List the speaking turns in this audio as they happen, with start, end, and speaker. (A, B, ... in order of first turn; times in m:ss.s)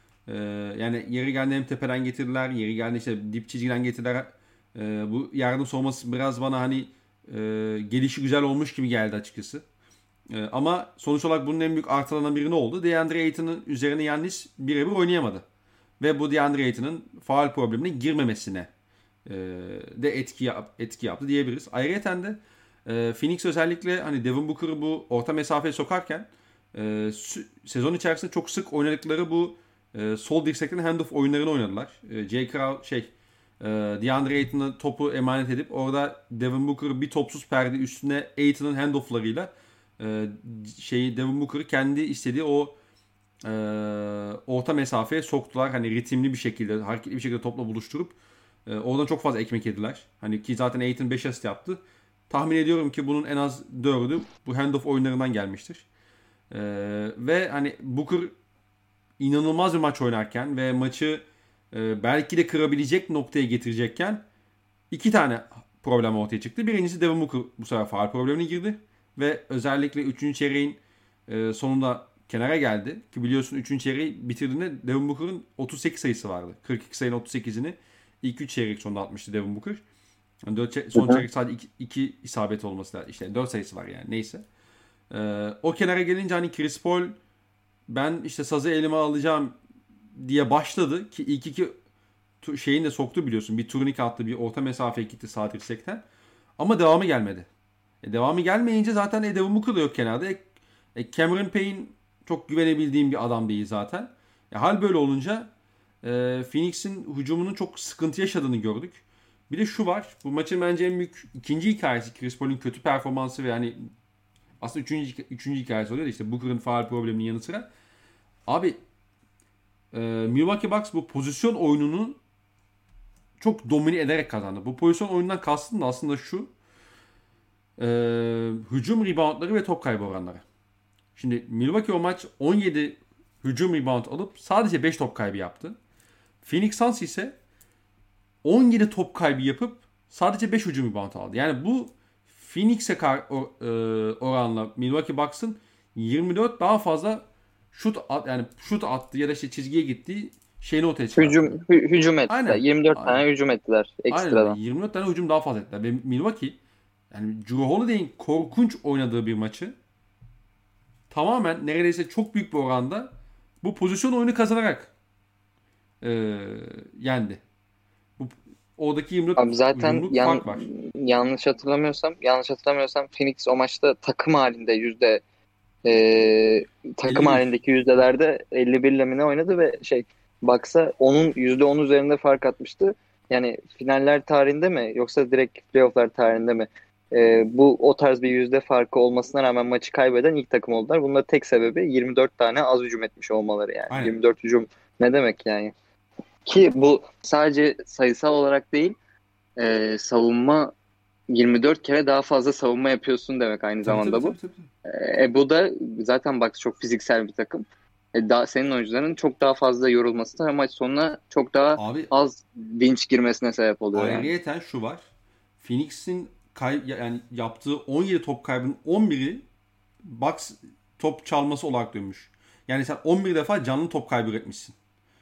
0:00.3-0:09.6 A
0:10.3-0:15.4 A
0:16.0-0:18.7 A
0:19.3-0:42.8 A
0:43.4-0:48.2 A
0:48.7-0:55.9 A
0:56.5-0:58.3 A
0:59.2-1:04.2 A
1:04.9-1:19.8 A
1:20.5-1:24.4 A
1:25.1-1:27.2 A
1:27.9-1:29.6 A
1:30.2-1:31.7 A
1:32.4-1:36.0 A
1:36.6-1:37.5 A
1:38.0-1:45.5 A
1:46.0-1:53.9 A
1:54.6-1:57.7 A
1:58.5-1:58.8 A
1:59.9-2:02.2 A
2:03.4-2:06.5 A
2:07.8-2:10.4 A
2:11.2-2:15.8 A
2:16.4-2:17.4 A
2:18.4-2:31.6 A
2:31.2-2:34.6 B
2:32.3-2:33.2 A
2:34.1-2:36.6 A
2:37.1-2:39.8 A
2:41.1-2:44.9 A
2:46.0-2:47.4 A
2:48.2-2:50.7 A
2:49.4-2:55.2 B
2:55.8-3:15.7 B
2:57.0-2:57.4 A
3:13.9-3:14.2 A
3:16.5-3:19.0 B
3:19.6-3:20.7 B
3:21.3-3:24.4 B
3:23.8-3:24.7 A
3:24.9-3:34.3 B
3:31.8-3:32.1 A
3:33.9-3:35.1 A
3:35.6-3:39.4 A
3:40.0-3:44.8 A